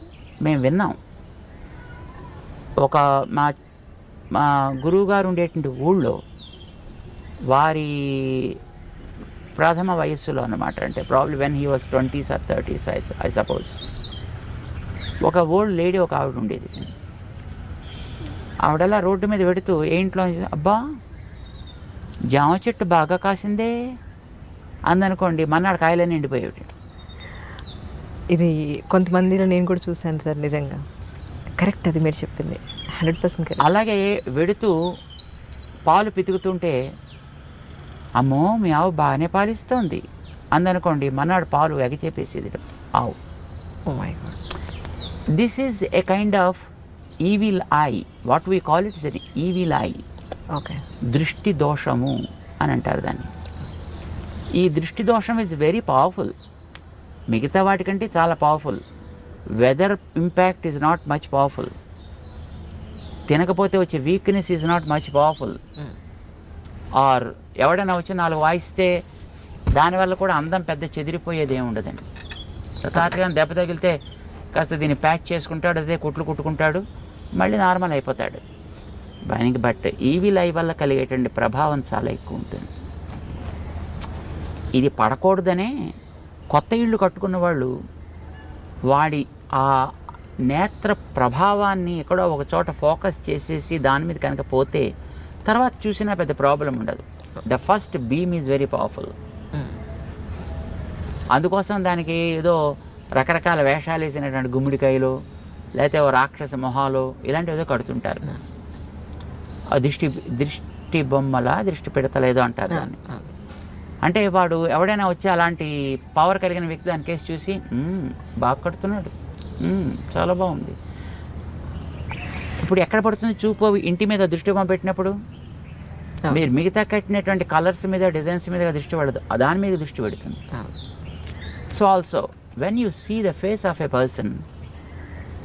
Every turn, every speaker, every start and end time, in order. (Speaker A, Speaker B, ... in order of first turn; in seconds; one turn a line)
Speaker A: 0.4-1.0
Speaker A: 2.8-3.5
Speaker A: 4.3-6.2
Speaker A: 7.5-8.6
Speaker A: 9.6-13.8
Speaker A: 15.2-16.9
Speaker A: 18.6-20.8
Speaker A: 22.3-23.7
Speaker A: 24.9-26.7
Speaker B: 28.3-30.8
Speaker B: 31.6-33.6
Speaker A: 33.6-34.7
Speaker A: 35.9-36.8
Speaker A: 38.2-40.0
Speaker A: 40.5-43.2
Speaker B: 43.9-44.4
Speaker A: 45.4-46.7
Speaker A: 47.2-50.0
Speaker B: 50.5-50.8
Speaker A: 51.1-53.3
Speaker A: 54.6-56.3
Speaker A: 57.3-58.8
Speaker A: 59.6-61.7
Speaker A: 63.3-65.6
Speaker A: 67.0-69.0
Speaker A: 69.8-72.1
Speaker A: 72.8-74.0
Speaker A: 74.5-76.8
Speaker A: 77.4-78.4
Speaker A: 79.3-82.7
Speaker A: 84.8-85.7
Speaker A: 86.5-87.7
Speaker A: 88.9-89.9
Speaker A: 90.5-94.9
Speaker A: 95.5-99.1
Speaker A: 101.3-102.6
Speaker A: 103.2-105.1
Speaker A: 105.8-108.2
Speaker A: 109.8-113.0
Speaker B: 112.7-113.3
Speaker A: 114.0-120.8
Speaker A: 122.6-125.1
Speaker A: 126.3-130.4
Speaker A: 131.7-134.4